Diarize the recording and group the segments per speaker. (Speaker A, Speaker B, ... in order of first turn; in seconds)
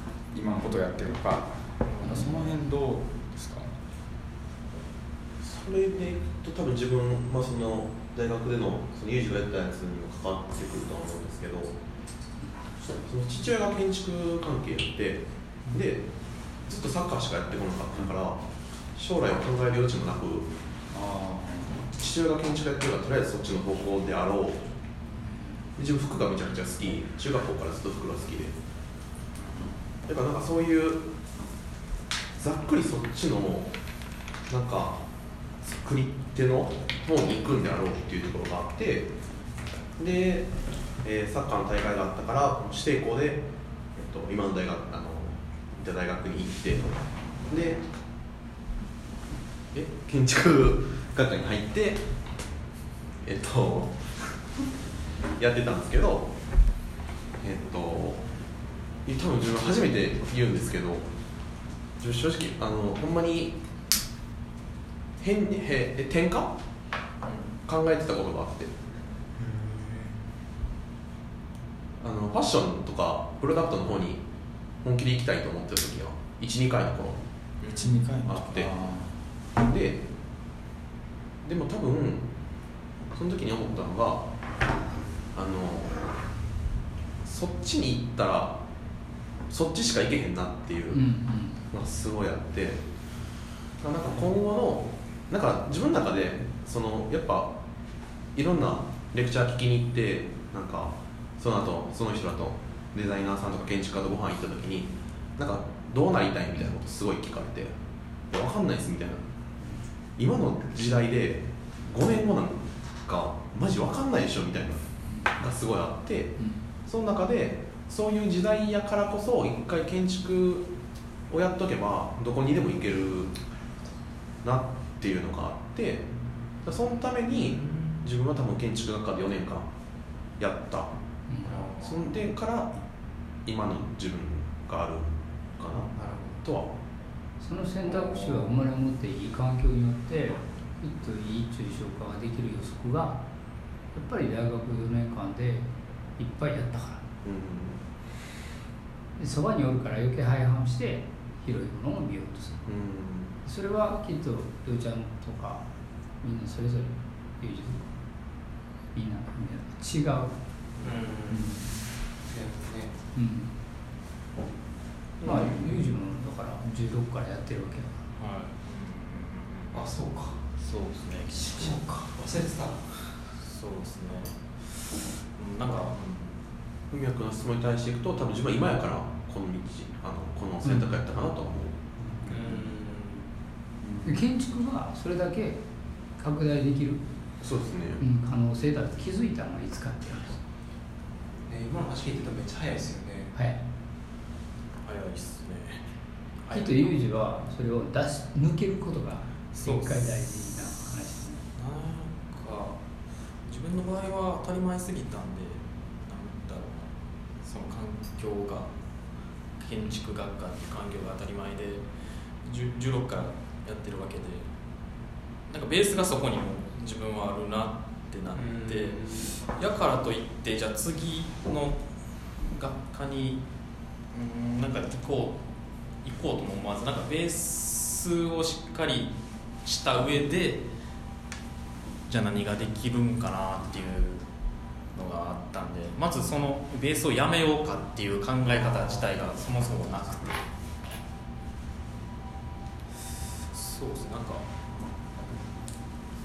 Speaker A: 0.3-3.7, 20.9-21.8, 69.4-70.2, 77.7-79.1
Speaker B: 1.8-2.4, 67.2-67.5, 77.6-77.9, 165.2-165.5, 168.2-169.9, 170.6-171.8, 173.3-176.4, 194.8-195.8, 196.4-196.9, 199.6-200.3, 201.5-202.8, 203.4-206.9, 207.4-208.7, 209.6-211.9, 212.4-214.5, 215.5-221.8, 222.4-223.4, 224.1-225.4, 226.0-230.7, 232.1-234.2, 234.9-240.5, 243.5-244.4
Speaker C: 5.4-11.7, 13.0-16.0, 16.6-18.4, 18.9-20.5, 21.9-24.6, 25.8-28.5, 30.1-31.0, 32.4-33.7, 34.5-35.0, 35.6-39.1, 40.0-40.5, 41.0-43.4, 43.9-47.8, 49.7-52.0, 53.2-54.4, 55.4-56.3, 57.4-58.2, 59.0-61.1, 62.0-63.6, 65.2-66.5, 67.7-68.7, 72.0-74.2, 74.8-77.2, 78.2-78.7, 79.6-80.0, 81.4-82.3, 83.1-84.3, 85.3-86.0, 87.2-88.6, 89.5-91.1, 91.7-92.8, 93.8-97.5, 98.3-107.7, 108.3-109.2, 110.2-120.7, 121.3-123.3, 124.4-126.1, 126.6-129.7, 130.4-130.9, 131.7-132.8, 133.4-135.9, 136.4-136.7, 147.2-147.8, 152.7-153.3, 176.9-181.9, 187.4-188.0
Speaker D: 90.9-91.6, 116.4-116.6, 131.3-131.6, 137.4-143.2, 143.9-147.0, 149.2-152.6, 153.4-155.6, 156.2-157.9, 158.9-160.3, 161.3-161.8, 163.1-163.6, 165.2-168.0, 180.6-181.0, 184.0-185.6, 186.2-187.0, 188.0-190.4, 196.5-201.4
Speaker E: 127.3-127.9, 131.4-132.0, 135.9-136.4, 160.8-161.5, 162.3-162.9, 169.7-170.4, 171.5-172.8, 182.3-183.2, 191.4-193.3, 218.3-219.3